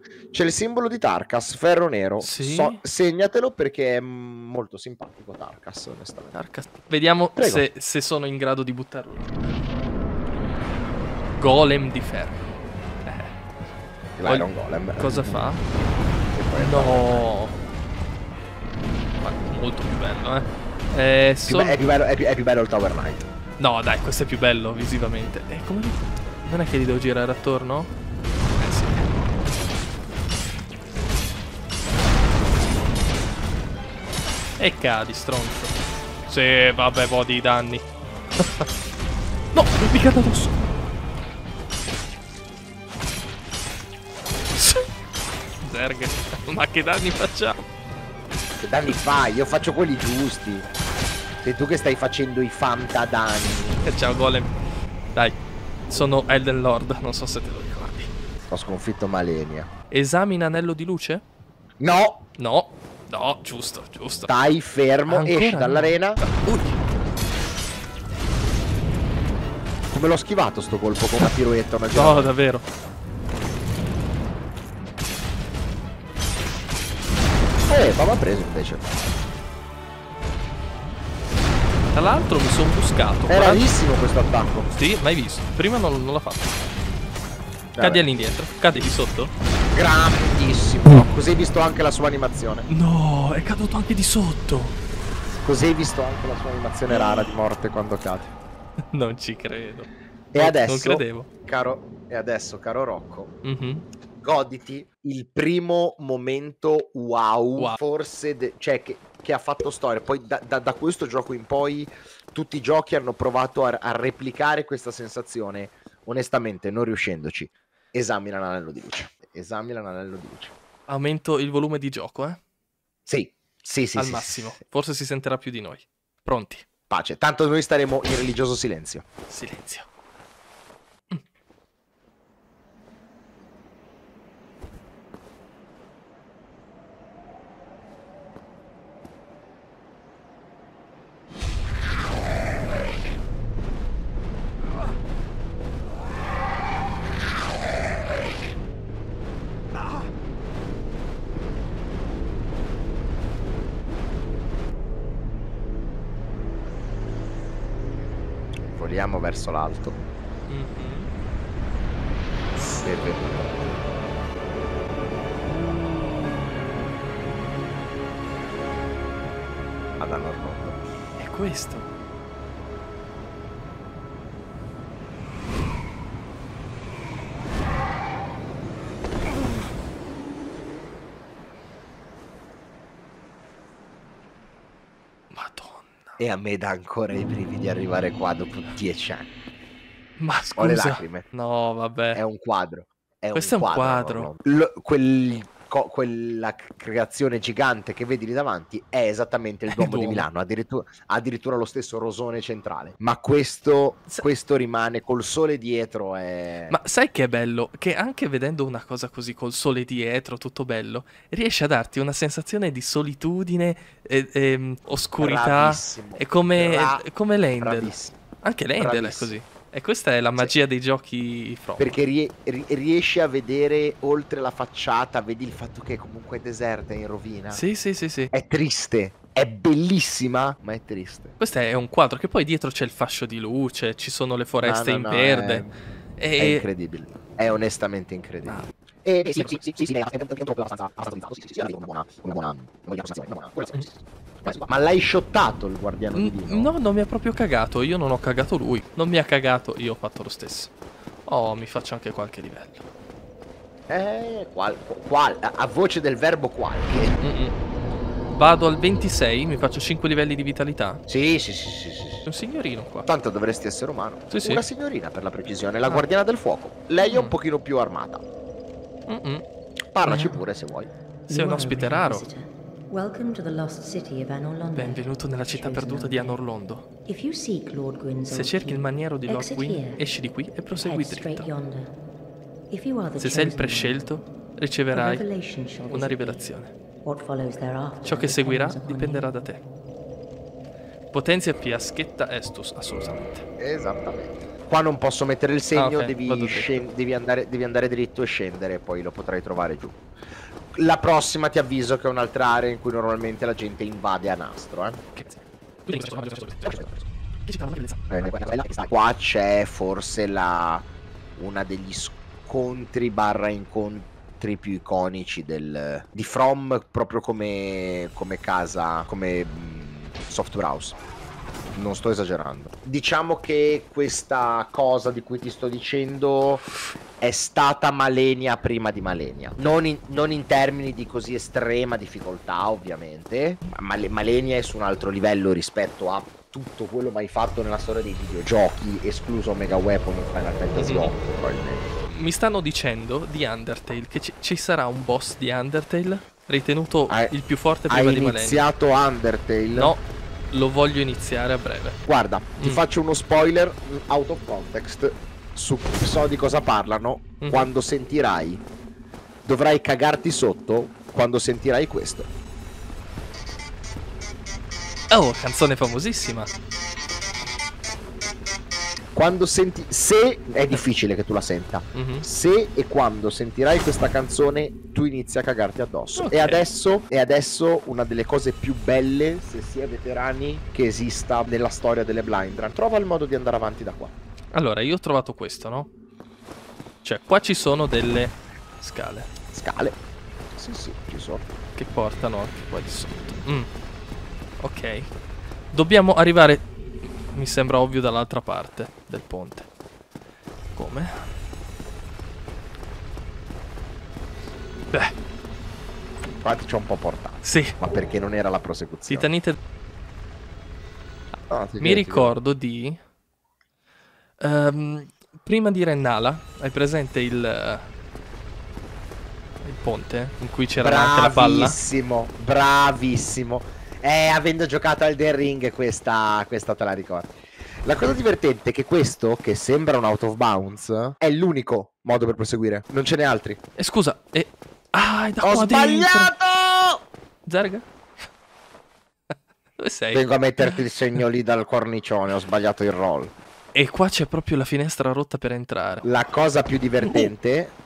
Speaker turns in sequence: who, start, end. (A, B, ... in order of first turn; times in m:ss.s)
0:00.3-0:06.4 A
0:02.2-0:02.8 B
0:06.3-0:09.6 B
0:07.4-0:07.6 A
0:11.4-0:12.5 B
0:13.0-0:13.3 B
0:14.2-0:15.4 A
0:14.2-0:15.6 B
0:16.3-0:17.3 A
0:16.5-0:17.5 B
0:19.2-0:21.8 B
0:21.5-0:23.3 A
0:23.6-0:27.9 B
0:28.5-0:29.1 B
0:34.6-0:35.7 B
0:36.3-0:37.8 B
0:38.4-0:38.6 B
0:39.5-0:40.6 B
0:44.5-0:44.8 B
0:45.6-0:47.6 B
0:48.6-0:50.7 A
0:51.4-0:53.8 A
0:53.8-0:54.5 B
0:55.9-0:58.1 B
0:58.5-0:59.7 A
0:59.9-1:01.2 B
1:01.8-1:02.2 A
1:02.4-1:04.3 B
1:04.3-1:06.2 A
1:05.1-1:06.8 B
1:09.9-1:12.3 A
1:11.9-1:12.6 B
1:17.7-1:18.9 A
1:21.9-1:23.6 B
1:23.3-1:24.7 A
1:24.7-1:26.6 B
1:27.7-1:28.0 A
1:27.8-1:29.3 B
1:29.7-1:32.7 A
1:32.7-1:34.7 B
1:35.4-1:38.3 A
1:38.9-1:41.3 B
1:40.3-1:43.3 A
1:43.4-1:43.8 B
1:44.2-2:00.5 A
2:00.9-2:02.4 B
2:03.0-2:04.6 A
2:04.0-2:06.6 B
2:06.9-2:09.0 A
2:09.3-2:09.9 B
2:38.7-2:40.0 A
2:40.5-2:41.1 B
2:42.6-2:43.6 A
2:50.0-2:50.8 A
2:51.2-2:51.9 B
3:05.3-3:06.2 B
3:06.2-3:09.3 A
3:10.2-3:12.2 B
3:10.5-3:11.2 A
3:12.1-3:26.8 A
3:13.3-3:14.3 B
3:19.7-3:20.2 B
3:26.7-3:42.0 B
3:35.2-3:37.0 A
3:37.6-3:38.2 A
3:38.8-3:39.3 A
3:41.8-3:47.6 A
3:47.5-3:48.3 B
3:48.3-3:51.4 A
3:51.4-3:55.6 B
3:54.6-3:55.7 A
3:56.2-3:56.6 B
3:56.4-4:06.7 A
4:06.1-4:10.7 B
4:11.2-4:12.8 B
4:13.9-4:17.2 A
4:17.2-4:17.5 B
4:18.3-4:21.0 B
4:21.1-4:22.3 A
4:22.3-4:23.1 B
4:23.0-4:28.2 A
4:24.3-4:24.6 B
4:27.0-4:27.4 B
4:29.1-4:29.4 B
4:29.9-4:30.9 A
4:30.0-4:30.4 C
4:31.3-4:32.2 B
4:31.3-4:36.4 C
4:34.7-4:36.9 B
4:37.0-4:40.0 C
4:38.3-4:41.5 B
4:40.7-4:42.0 C
4:42.7-4:44.1 C
4:43.2-4:45.2 B
4:44.9-4:46.5 C
4:45.9-4:46.7 B
4:47.0-4:49.6 C
4:48.0-4:49.6 B
4:51.1-4:53.4 B
4:53.6-5:00.0 A
4:55.7-4:56.8 B
5:00.7-5:05.0 A
5:05.1-5:08.1 B
5:08.1-5:21.0 A
5:21.7-5:26.6 A
5:27.2-5:41.9 A
5:40.8-5:41.1 B
5:42.1-5:48.6 B
5:47.9-5:49.9 A
5:49.7-5:52.0 B
5:52.0-5:58.6 A
5:57.4-5:57.7 B
5:59.4-6:02.3 A
6:05.1-6:06.5 B
6:09.1-6:24.1 A
6:11.9-6:12.2 B
6:16.2-6:16.6 B
6:24.5-6:25.9 B
6:27.0-6:29.3 B
6:29.5-6:30.0 A
6:30.6-6:31.4 A
6:31.8-6:33.7 B
6:34.6-6:35.1 B
6:35.7-6:36.6 B
6:37.3-6:39.7 B
6:40.7-6:41.3 B
6:46.4-6:49.3 A
6:47.4-6:47.7 B
6:49.1-6:49.6 B
6:51.5-6:52.4 A
6:51.8-6:53.0 B
6:54.4-6:57.9 B
6:59.6-7:01.8 B
7:00.8-7:07.3 A
7:07.8-7:13.6 A
7:13.8-7:16.3 B
7:15.4-7:17.0 A
7:17.4-7:17.8 B
7:19.8-7:20.8 B
7:20.1-7:23.3 A
7:23.7-7:26.0 B
7:26.0-7:27.7 A
7:27.0-7:27.3 B